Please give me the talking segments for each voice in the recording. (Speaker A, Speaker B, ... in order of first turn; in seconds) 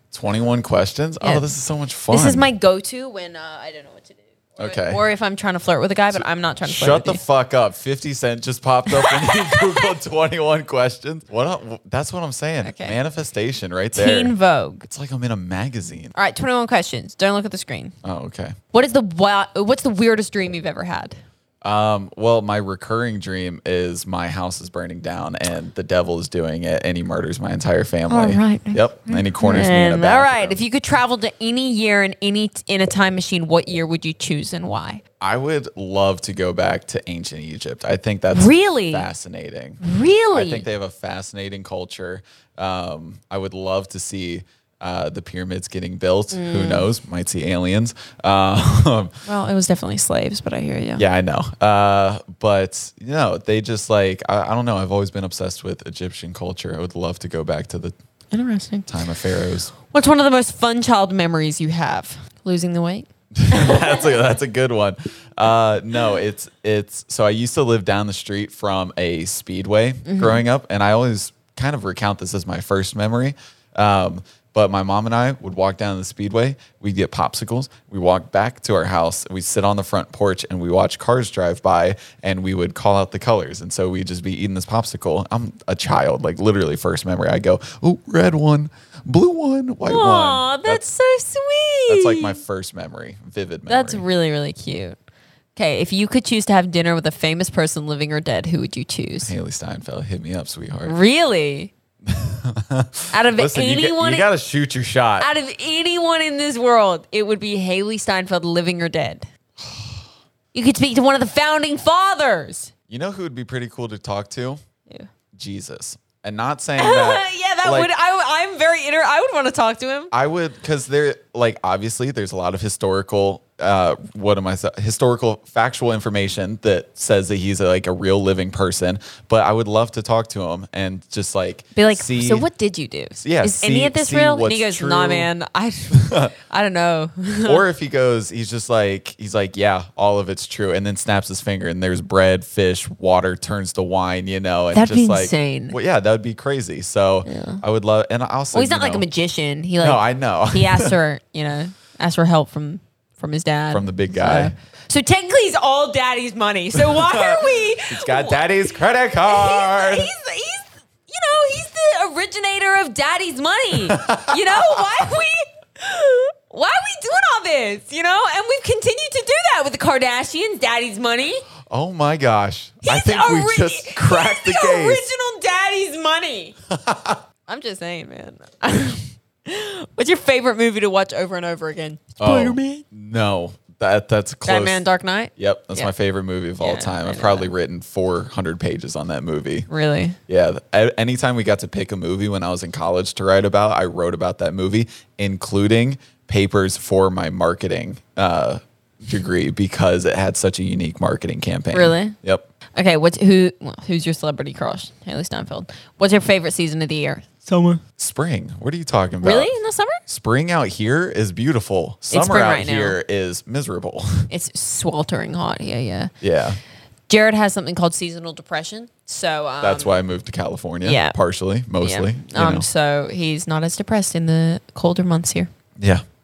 Speaker A: 0.1-2.5, 4.6-5.0, 6.1-14.3, 14.9-16.1, 18.0-18.6, 21.6-30.6, 35.2-39.8, 40.3-49.1, 51.0-58.0, 58.9-59.7, 63.4-90.8, 91.9-94.0, 99.2-101.0, 102.1-105.3, 109.6-110.0, 112.9-114.6, 115.4-117.9, 120.1-132.5, 133.2-135.3, 135.9-136.3, 137.4-149.0, 149.8-151.0, 153.7-154.5, 156.8-160.1, 163.8-165.0, 171.7-175.0, 176.7-177.2, 182.2-184.8, 185.4-189.7, 190.3-202.5, 208.0-209.5, 210.1-214.3, 216.2-216.6, 219.6-222.7
Speaker B: 1.2-1.5, 2.1-7.2, 8.9-9.9, 12.6-13.0, 13.9-14.9, 16.1-17.9, 18.7-21.2, 28.1-35.0, 38.3-39.1, 39.8-40.6, 46.3-46.9, 49.2-51.0, 58.3-58.9, 59.9-64.1, 70.0-70.4, 89.9-92.4, 93.7-95.0, 95.6-99.3, 100.8-101.7, 103.1-104.3, 105.2-109.3, 110.5-112.7, 116.8-120.1, 131.8-137.7, 144.7-145.8, 147.3-147.6, 148.5-171.4, 172.8-176.6, 177.5-182.8, 184.5-185.9, 186.6-187.5, 189.7-190.2, 201.7-202.2, 202.8-207.8, 209.2-210.0, 212.1-213.0, 214.3-216.1, 217.1-220.0, 220.8-221.2, 221.8-225.5